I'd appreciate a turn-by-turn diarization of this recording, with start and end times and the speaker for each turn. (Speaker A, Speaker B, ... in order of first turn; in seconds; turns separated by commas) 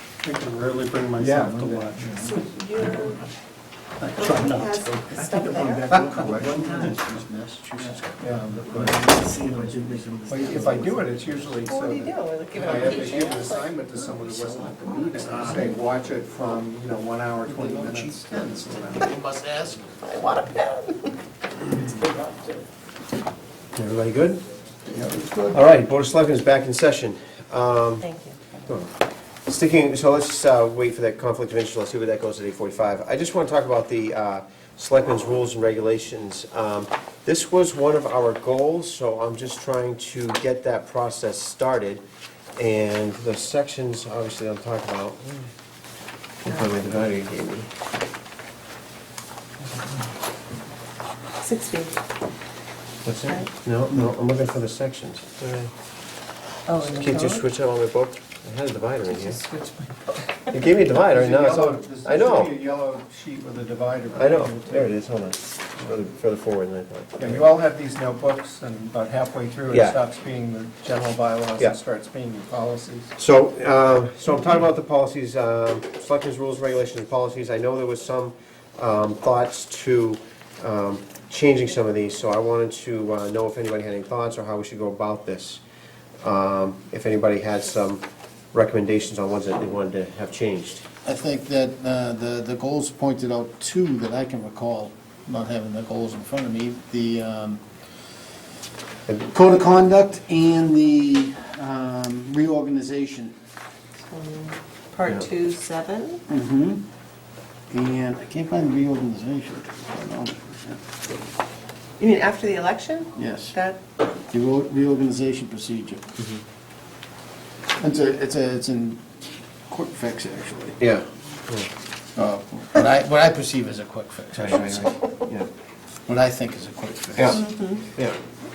Speaker A: 0.2-2.3, Speaker B: 1.2-2.3, Speaker C: 2.2-3.2, Speaker C: 4.1-6.0, Speaker A: 4.2-4.8, Speaker D: 5.1-11.0, Speaker B: 5.9-6.7, Speaker B: 8.2-9.1, Speaker A: 8.7-10.7, Speaker B: 10.3-19.1, Speaker C: 11.6-14.1, Speaker D: 12.8-13.2, Speaker D: 14.2-15.7, Speaker C: 15.5-15.8, Speaker D: 17.4-19.9, Speaker C: 20.0-21.2, Speaker C: 21.9-22.3, Speaker E: 23.8-24.4, Speaker D: 24.9-25.6, Speaker E: 25.5-28.1, Speaker C: 28.0-28.7, Speaker E: 29.5-42.0, Speaker E: 42.6-45.5, Speaker E: 46.4-47.7, Speaker C: 51.4-52.0, Speaker E: 53.0-55.7, Speaker C: 56.7-57.5, Speaker E: 56.9-59.4, Speaker C: 59.3-60.0, Speaker E: 60.5-62.5, Speaker B: 61.0-65.0, Speaker E: 64.1-67.5, Speaker B: 67.2-73.1, Speaker E: 69.7-70.0, Speaker E: 73.2-85.6, Speaker E: 86.2-90.8, Speaker D: 91.0-97.6, Speaker D: 99.2-103.3, Speaker C: 104.0-106.2, Speaker D: 106.3-106.8, Speaker D: 107.7-110.8, Speaker C: 112.0-113.8, Speaker D: 113.2-113.5, Speaker D: 114.3-116.1, Speaker D: 117.8-119.0, Speaker D: 119.7-120.8, Speaker E: 120.8-121.7, Speaker D: 122.2-125.0, Speaker E: 124.4-125.5, Speaker D: 126.1-127.4, Speaker E: 127.2-127.4, Speaker C: 127.3-127.8